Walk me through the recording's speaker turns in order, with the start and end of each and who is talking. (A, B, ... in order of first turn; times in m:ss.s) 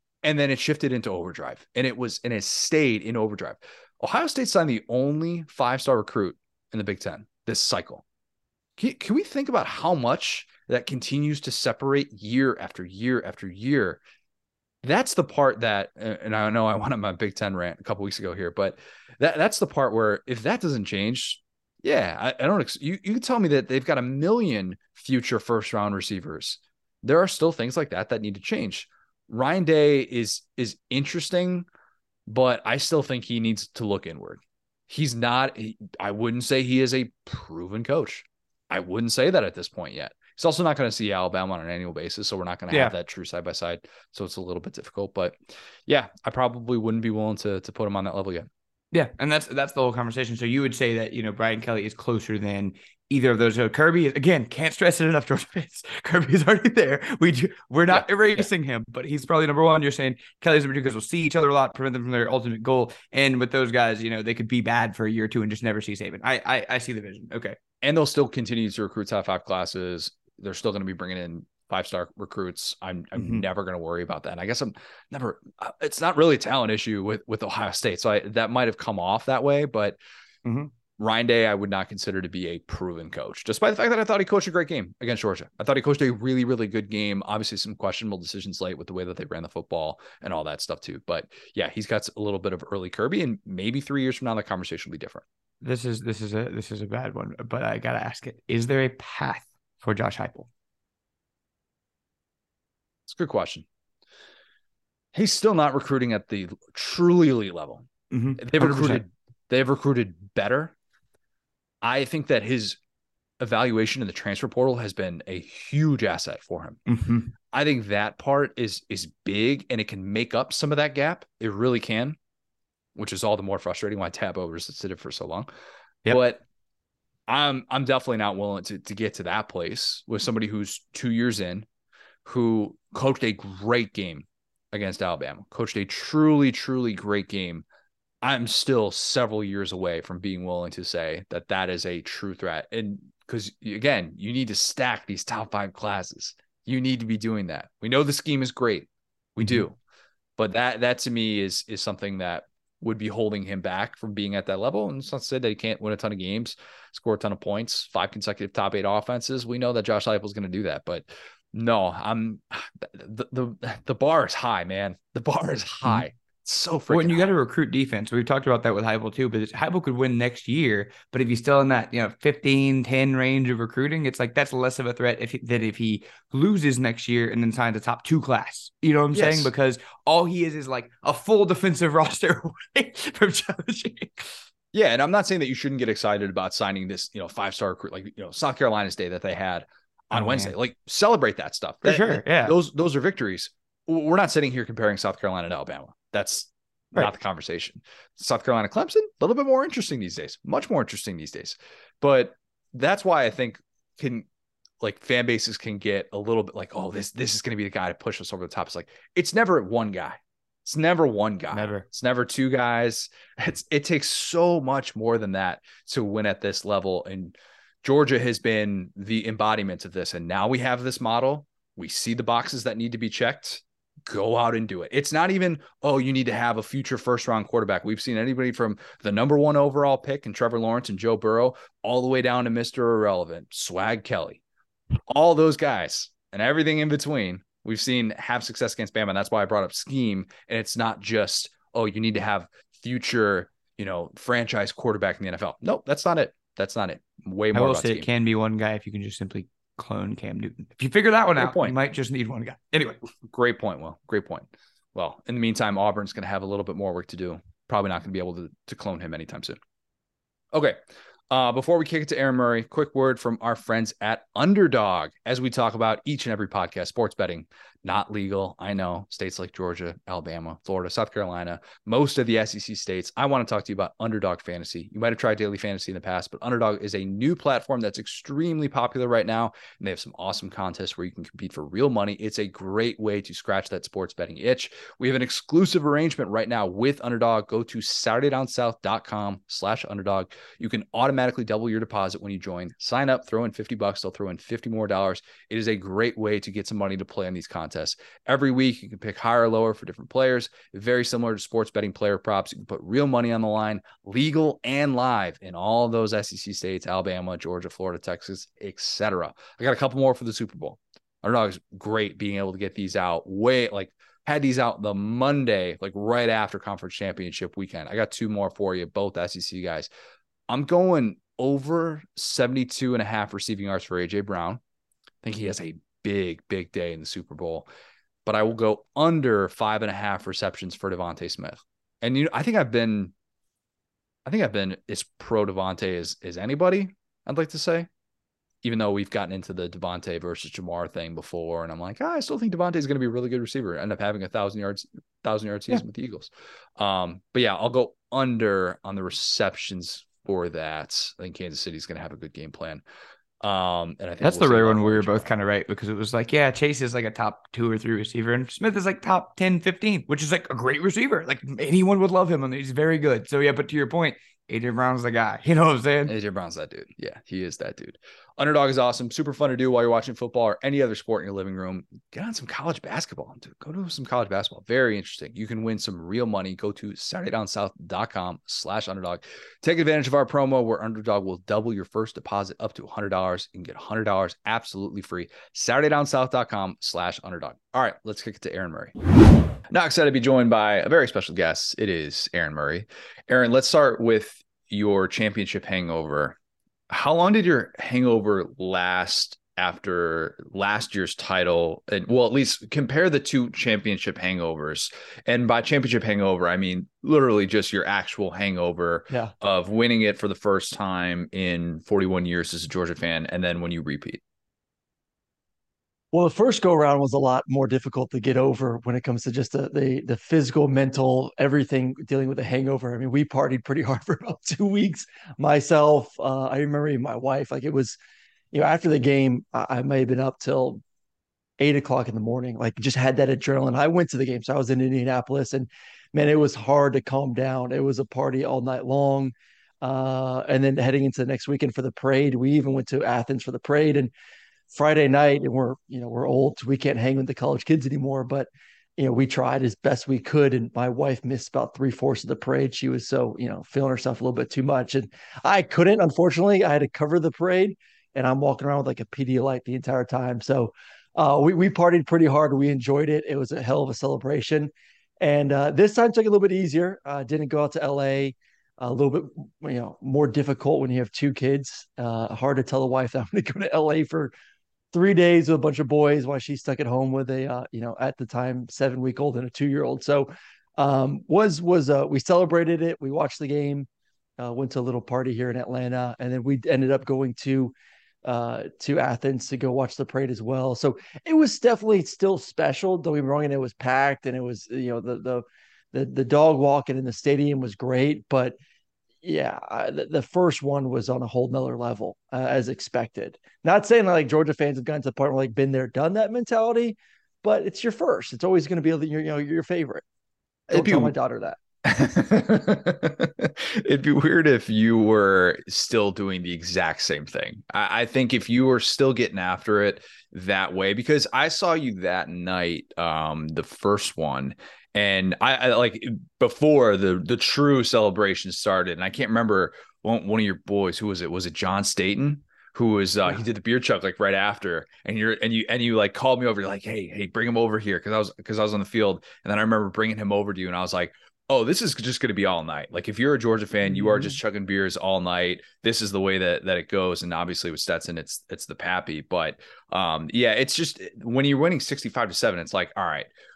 0:00.2-0:08.0 A
0:08.8-0:14.0 A
0:14.8-0:31.7 A
0:32.3-0:45.4 A
0:42.7-0:43.0 B
0:45.9-0:48.5 A
0:48.9-1:07.6 B
0:57.9-0:58.4 A
1:07.8-1:20.0 A
1:13.2-1:13.4 B
1:20.4-1:20.7 B
1:21.0-1:35.2 A
1:35.6-1:40.5 B
1:43.1-1:43.6 A
1:45.1-1:47.9 A
1:48.1-1:49.0 B
1:48.4-1:50.7 A
1:51.8-1:52.8 A
1:53.4-1:56.8 A
1:56.9-1:57.3 B
1:57.5-2:02.2 A
2:03.0-2:05.5 A
2:06.1-2:06.4 A
2:07.3-2:11.7 A
2:12.2-2:17.6 A
2:18.2-2:29.8 A
2:29.4-2:29.6 B
2:30.4-2:47.3 A
2:46.9-3:04.4 B
2:59.1-2:59.5 A
3:04.7-3:24.3 A
3:10.1-3:10.5 B
3:11.8-3:12.6 B
3:24.8-3:54.4 A
3:31.5-3:31.9 B
3:55.1-4:08.1 A
4:07.5-4:13.0 B
4:11.4-4:11.7 A
4:13.3-4:19.6 A
4:20.5-4:20.8 A
4:21.3-5:19.9 A
5:20.5-5:24.6 A
5:25.2-5:27.7 A
5:28.3-5:33.1 A
5:34.3-5:37.9 A
5:38.6-5:52.8 A
5:53.4-5:55.3 A
5:54.2-6:06.2 B
6:06.1-6:28.9 A
6:29.7-6:36.4 A
6:36.9-6:54.2 A
6:56.1-7:08.0 C
7:08.5-7:10.8 C
7:11.6-7:24.1 C
7:24.7-7:54.3 C
7:54.9-8:03.9 C
8:04.4-8:07.7 C
8:08.2-8:18.6 C
8:19.2-8:30.0 C
8:30.7-8:31.1 A
8:30.7-8:31.6 C
8:31.8-9:13.3 A